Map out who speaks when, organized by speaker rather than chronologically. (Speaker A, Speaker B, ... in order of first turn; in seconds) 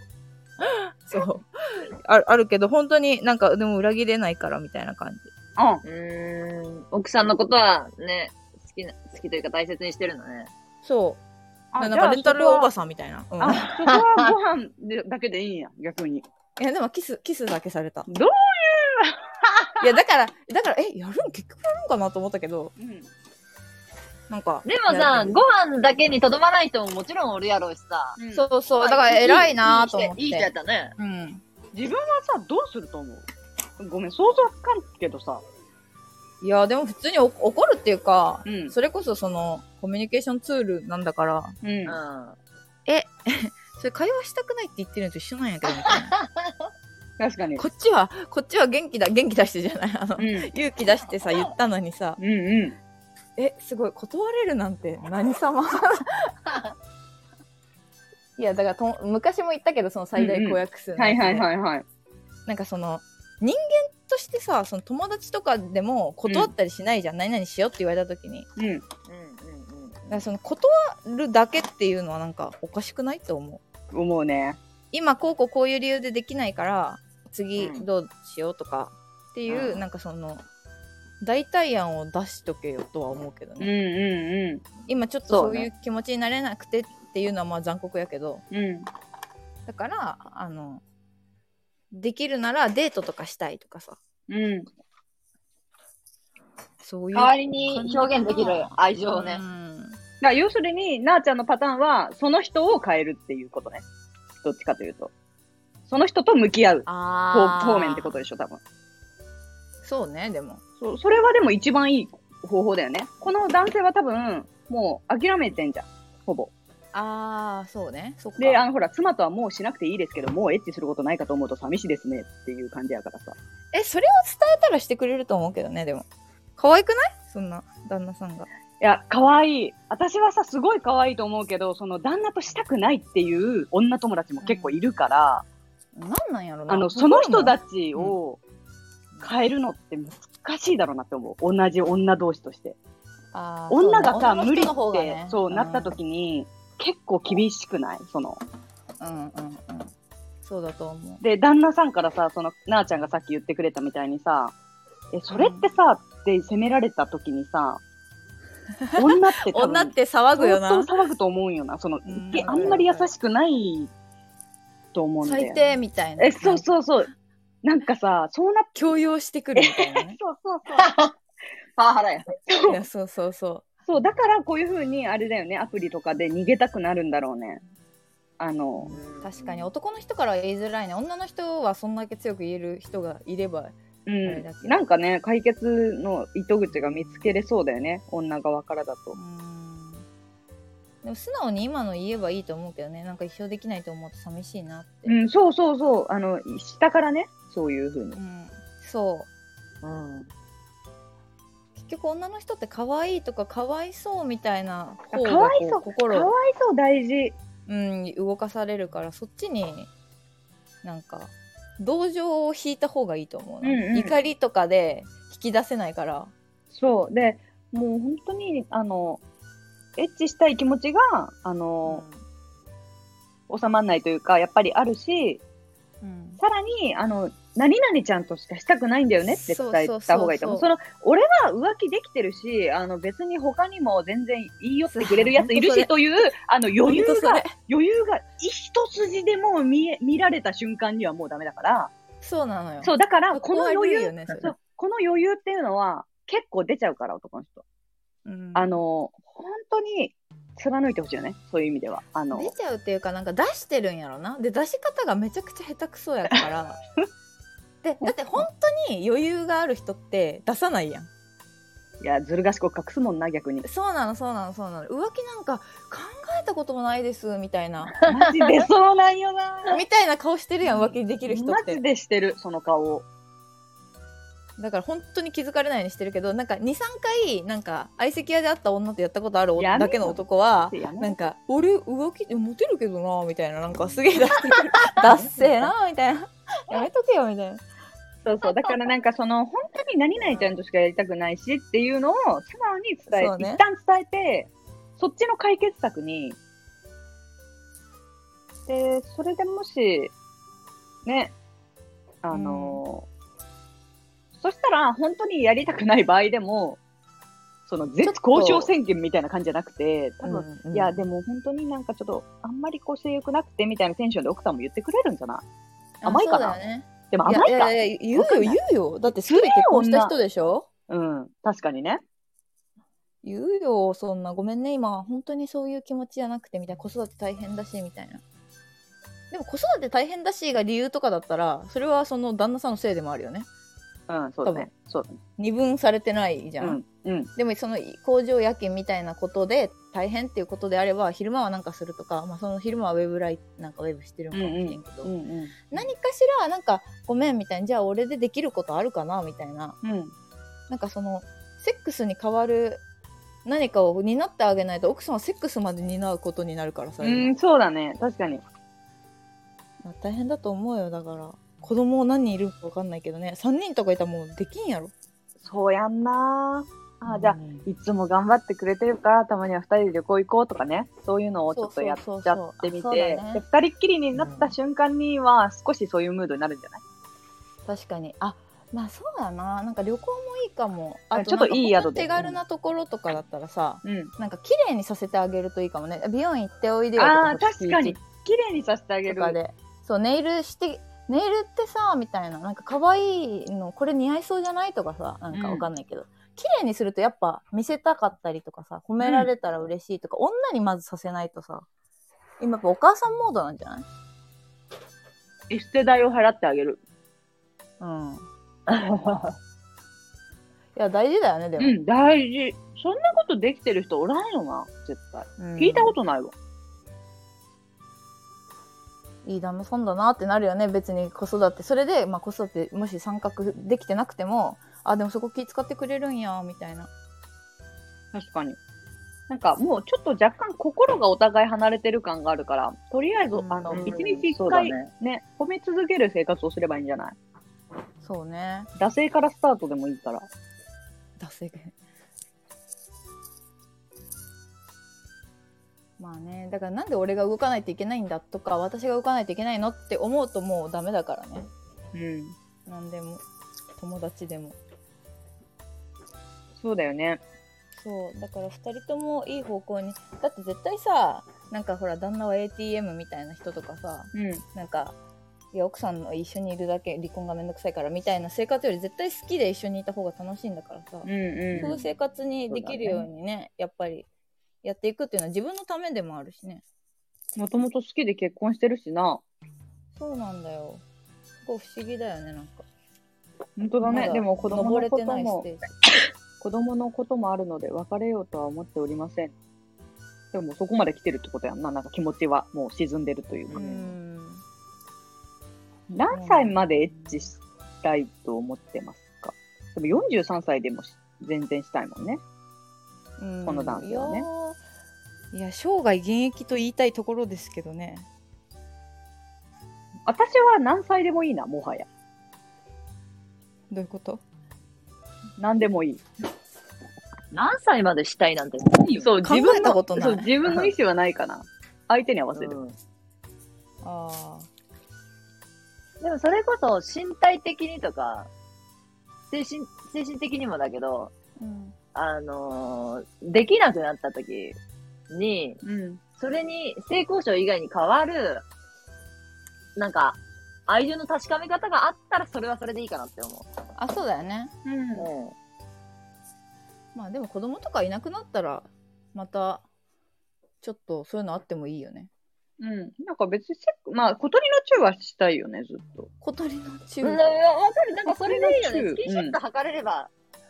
Speaker A: 0.6-5.3, 10.8-11.2, 11.8-13.7, 16.6-18.1, 19.8-22.7, 24.3-25.4, 28.3-31.4, 36.4-41.5, 42.9-46.1, 47.6-52.2, 53.4-56.6, 58.4-61.5, 62.5-68.5, 70.1-73.6, 74.9-80.4, 81.2-83.7, 84.8-88.4, 89.7-90.8, 91.9-94.0, 96.8-100.0, 106.8-108.2, 109.8-110.6, 116.9-118.6, 123.7-126.0, 126.6-128.5, 134.4-134.8, 135.9-138.2, 143.3-146.0, 149.0-149.9, 150.4-151.2, 155.3-155.7, 158.8-160.9, 162.1-163.1, 165.2-166.7, 168.8-170.2, 172.7-173.7, 179.2-184.8, 189.1-190.1, 191.0-195.1, 198.2-199.3, 201.8-206.3, 207.7-209.9, 210.8-216.3, 221.8-222.2, 226.0-226.4, 229.3-230.7, 234.9-236.3, 236.8-237.5, 242.2-244.5, 248.2-248.7, 252.3-256.8, 257.8-261.1, 263.6-268.0, 269.7-271.8, 274.6-287.6, 293.1-293.6, 302.3-302.8, 308.0-308.7, 310.2-311.0, 316.0-320.6, 323.2-328.2, 329.3-333.5, 335.4-336.8, 337.4-345.1, 345.7-349.8, 350.7-352.8, 353.4-357.3, 359.8-364.9, 367.2-367.6, 371.5-373.4, 377.6-388.0, 389.1-401.6, 402.4-403.9, 407.8-408.2, 410.8-411.8, 415.4-415.9, 419.2-426.9, 433.3-434.0, 438.0-438.7, 441.2-441.7, 446.0-451.5, 452.7-453.2, 453.8-454.6, 457.8-464.9, 465.5-474.1, 474.6-476.6, 479.9-480.8, 481.4-482.6, 483.8-485.6, 493.5-494.4, 496.1-497.3, 503.2-504.6, 505.3-508.1, 513.7-514.2, 519.2-520.3, 523.8-524.5, 531.4-531.7, 543.8-544.5, 546.9-549.6, 550.6-552.1, 556.2-557.2
Speaker B: 5.6-5.8, 11.7-12.7, 13.4-16.2, 18.1-19.8, 22.8-23.1, 28.2-28.5, 31.7-33.2, 33.8-35.4, 38.5-38.7, 41.6-42.0, 47.2-47.6, 50.2-50.5, 52.2-52.8, 60.1-61.8, 66.3-66.5, 68.6-68.8, 73.9-74.6, 83.6-84.7, 88.5-88.9, 94.3-94.7, 100.2-103.8, 104.4-105.1, 105.9-108.6, 110.8-116.5, 118.4-123.3, 128.8-135.4, 136.7-138.4, 139.2-142.8, 143.7-148.4, 151.2-154.5, 155.1-157.8, 158.9-163.9, 164.9-165.7, 166.2-167.1, 167.6-168.8, 169.6-170.9, 172.5-172.8, 173.8-177.6, 178.4-179.0, 184.1-189.2, 195.1-198.2, 205.1-207.4, 213.6-214.1, 216.7-219.2, 220.0-222.0, 223.5-225.4, 226.4-241.9, 242.8-247.6, 248.5-252.5, 262.0-263.6, 268.1-269.8, 270.7-273.1, 279.6-281.2, 284.9-285.7, 288.2-296.4, 298.7-300.1, 301.0-301.3, 302.2-303.1, 304.4-306.8, 307.7-315.4, 316.0-316.6, 317.1-318.6, 319.1-320.1, 320.9-322.0, 334.1-335.2, 336.6-337.3, 344.3-345.7, 349.8-350.1, 357.0-358.4, 365.4-376.8, 381.1-382.2, 383.8-384.1, 387.0-389.4, 395.3-395.7, 399.0-399.3, 405.5-406.8, 411.6-416.3, 428.1-428.6, 429.3-437.1, 438.8-440.3, 451.9-452.3, 456.6-457.2, 464.1-464.4, 471.0-471.8, 477.4-479.2, 483.6-485.5, 486.4-489.3, 490.3-493.9, 495.9-502.2, 503.4-504.3, 510.1-511.9, 515.4-516.0, 519.0-522.6, 535.6-536.0, 544.6-545.1, 552.6-556.1, 558.1-559.4
Speaker C: 5.8-10.5, 13.8-14.3, 24.6-28.2, 28.8-30.9, 41.9-42.4, 45.9-46.5, 69.1-70.2, 77.6-77.8, 79.5-79.8, 97.1-99.4, 162.5-162.8, 170.7-171.1, 171.8-172.3, 178.9-179.7, 199.8-200.3, 288.4-288.7, 374.1-374.5, 408.7-409.4, 433.7-434.9, 471.5-471.8, 472.5-473.0, 517.3-519.1, 522.3-522.8, 526.0-528.3, 529.3-531.1, 531.9-534.6, 535.1-535.6, 536.2-538.5, 539.8-543.5, 545.0-545.3, 557.0-560.1